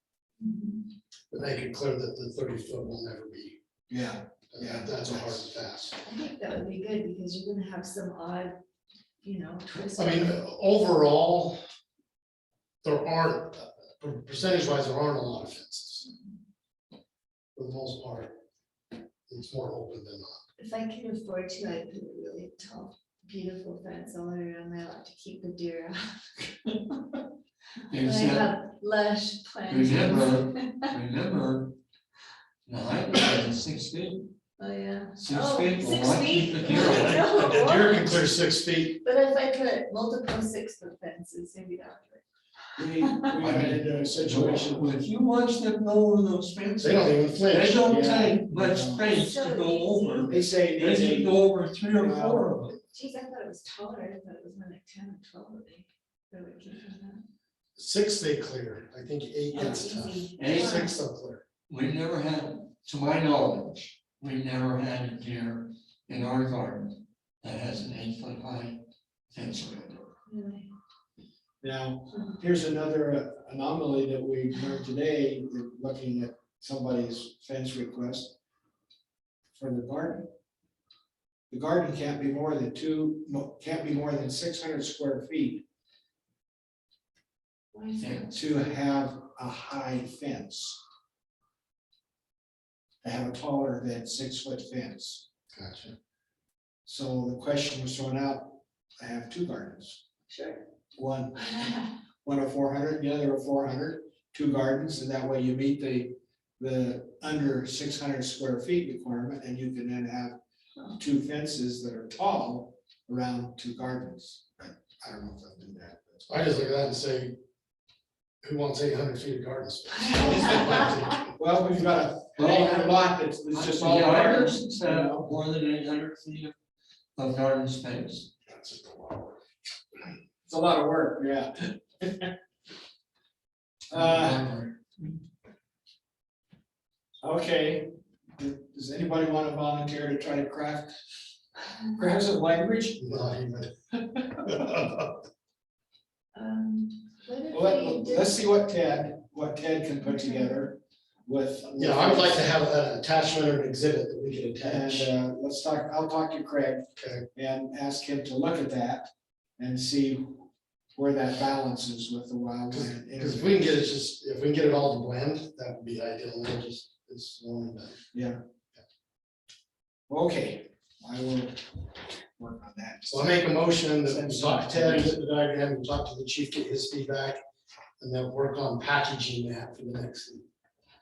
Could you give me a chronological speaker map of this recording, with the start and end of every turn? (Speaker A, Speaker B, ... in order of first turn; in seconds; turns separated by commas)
Speaker A: 0.4-0.8, Speaker B: 1.3-3.6, Speaker C: 3.9-5.6, Speaker B: 4.5-6.0, Speaker A: 6.0-8.6, Speaker A: 9.2-10.3, Speaker B: 9.9-11.6, Speaker B: 12.8-16.1, Speaker B: 17.6-18.4, Speaker B: 19.3-20.4, Speaker A: 20.6-27.2, Speaker D: 27.9-28.5, Speaker A: 27.9-31.0, Speaker D: 29.7-31.8, Speaker D: 32.6-34.3, Speaker A: 34.6-38.2, Speaker D: 35.2-37.4, Speaker B: 37.0-39.0, Speaker A: 39.0-42.2, Speaker C: 42.8-44.9, Speaker A: 43.0-43.3, Speaker D: 43.4-52.7, Speaker B: 46.8-47.9, Speaker C: 47.9-49.0, Speaker A: 49.1-50.4, Speaker C: 50.3-51.4, Speaker C: 51.9-52.5, Speaker A: 52.7-57.2, Speaker B: 57.8-61.4, Speaker A: 59.5-60.9, Speaker D: 60.4-60.9, Speaker D: 61.7-70.1, Speaker A: 70.2-70.7, Speaker C: 71.6-78.3, Speaker C: 79.5-80.3, Speaker C: 81.5-85.6, Speaker A: 87.7-88.3, Speaker D: 88.0-88.2, Speaker C: 88.3-90.8, Speaker C: 93.0-95.2, Speaker B: 95.5-95.9, Speaker C: 96.8-100.0, Speaker A: 100.3-100.6, Speaker C: 101.0-110.3, Speaker C: 111.0-116.3, Speaker B: 116.3-117.3, Speaker B: 118.4-121.2, Speaker A: 120.0-120.9, Speaker C: 121.4-125.3, Speaker D: 122.4-122.9, Speaker D: 123.5-126.5, Speaker D: 127.2-128.3, Speaker C: 128.5-129.3, Speaker C: 130.4-132.3, Speaker C: 133.9-134.4, Speaker D: 133.9-135.1, Speaker C: 137.2-140.9, Speaker C: 141.9-143.4, Speaker B: 143.0-143.7, Speaker B: 144.5-145.1, Speaker A: 146.3-148.4, Speaker C: 147.5-152.5, Speaker A: 150.0-150.5, Speaker B: 151.8-155.1, Speaker C: 154.6-163.7, Speaker B: 157.0-157.2, Speaker B: 162.7-168.0, Speaker C: 168.1-168.4, Speaker C: 170.1-175.2, Speaker B: 173.1-177.4, Speaker B: 178.0-180.4